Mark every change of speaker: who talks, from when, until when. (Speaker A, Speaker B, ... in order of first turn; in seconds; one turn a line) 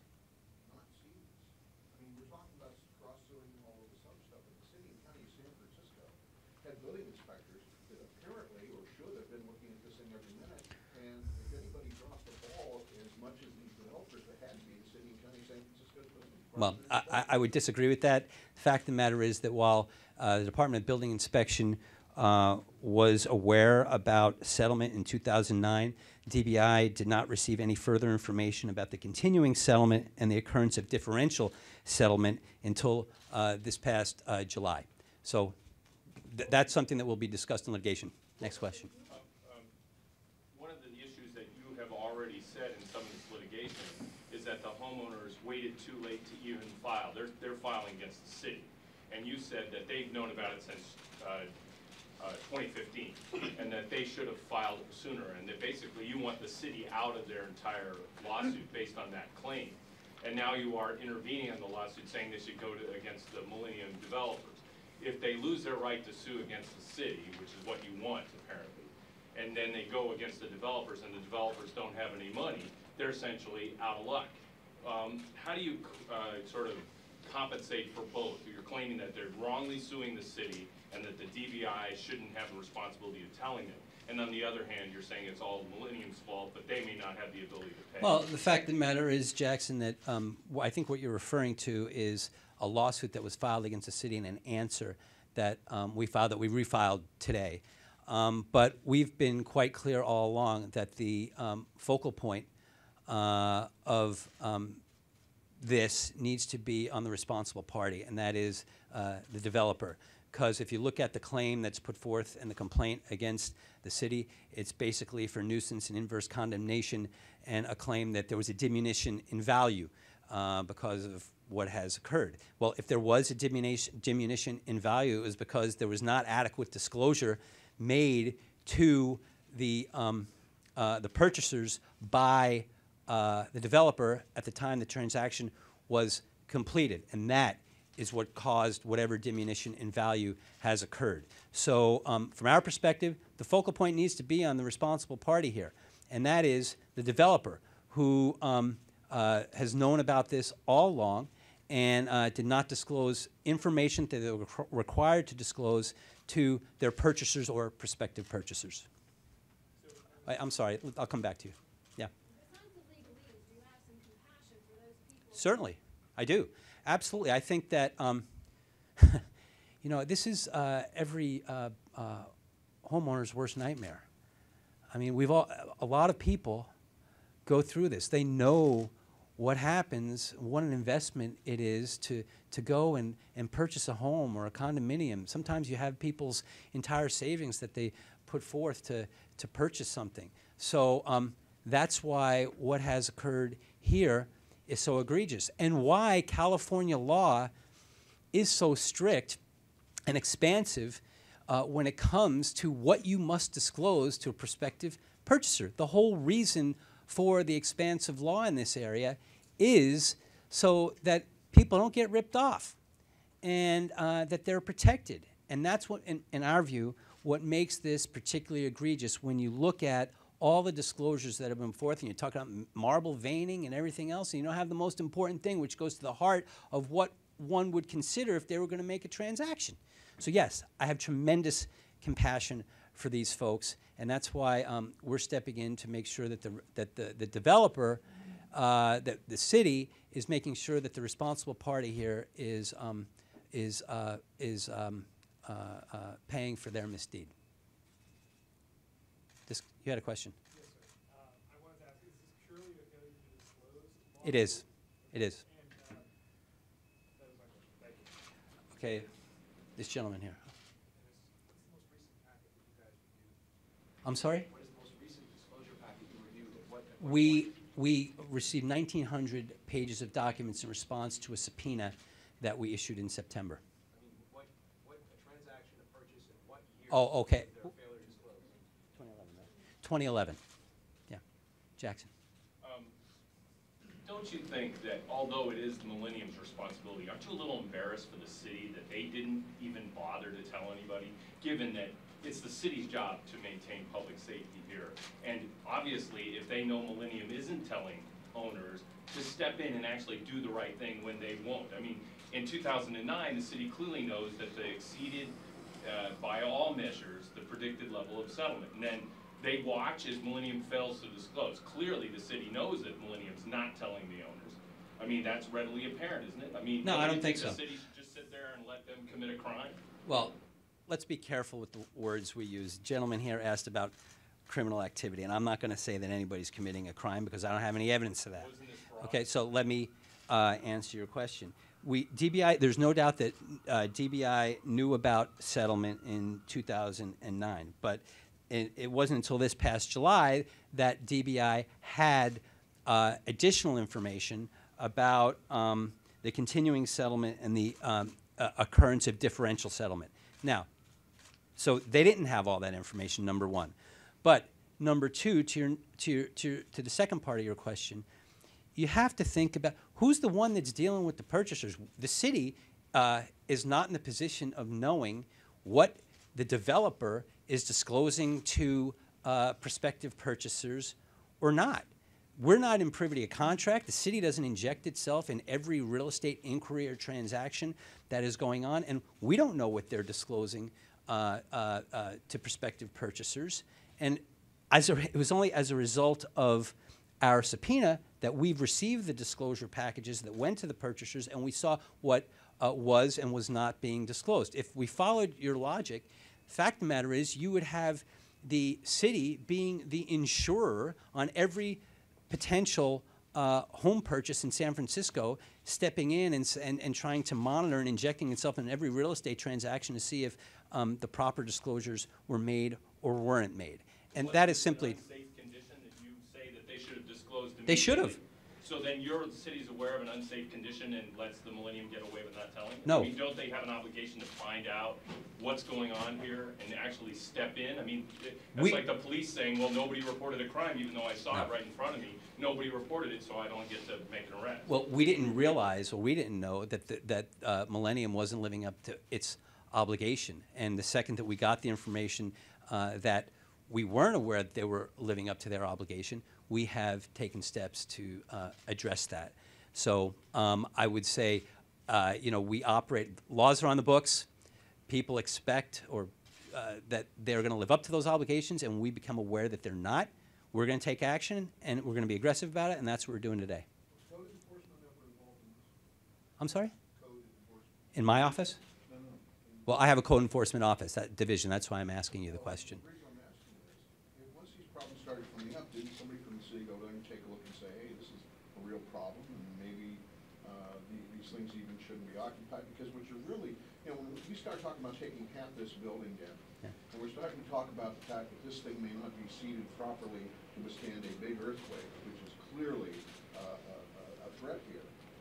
Speaker A: 0.6-17.4
Speaker B: 16.6-35.6
Speaker B: 36.2-38.9
Speaker C: 39.1-39.7
Speaker C: 40.5-51.5
Speaker C: 52.2-88.2
Speaker B: 88.0-102.5
Speaker B: 103.1-104.8
Speaker B: 105.6-158.9
Speaker D: 159.8-160.5
Speaker B: 160.2-162.1
Speaker E: 162.2-165.7
Speaker B: 165.3-168.3
Speaker B: 169.0-169.2
Speaker B: 169.8-172.3
Speaker B: 172.8-174.1
Speaker B: 174.9-176.7
Speaker B: 177.5-197.5
Speaker B: 198.3-199.4
Speaker B: 200.1-212.8
Speaker B: 213.4-247.3
Speaker B: 249.5-250.3
Speaker D: 250.5-256.1
Speaker B: 254.2-255.4
Speaker D: 257.1-258.2
Speaker B: 258.7-259.1
Speaker B: 259.8-260.5
Speaker F: 260.9-263.4
Speaker B: 264.0-264.5
Speaker F: 264.4-267.6
Speaker B: 267.0-273.6
Speaker F: 273.9-278.6
Speaker B: 276.9-277.7
Speaker B: 278.9-280.4
Speaker B: 281.8-282.1
Speaker C: 282.6-282.9
Speaker C: 284.0-319.8
Speaker B: 316.8-317.6
Speaker B: 320.1-320.4
Speaker B: 320.9-323.9
Speaker B: 324.5-350.7
Speaker C: 328.4-329.2
Speaker B: 351.6-358.1
Speaker B: 358.8-415.0
Speaker C: 414.2-434.7
Speaker B: 417.7-418.2
Speaker B: 422.9-423.1
Speaker B: 428.5-428.8
Speaker B: 434.7-454.3
Speaker B: 454.9-463.7
Speaker A: 463.9-465.7
Speaker B: 466.4-466.8
Speaker A: 466.9-468.1
Speaker B: 467.9-468.6
Speaker A: 468.9-469.8
Speaker B: 469.7-472.8
Speaker A: 472.2-494.9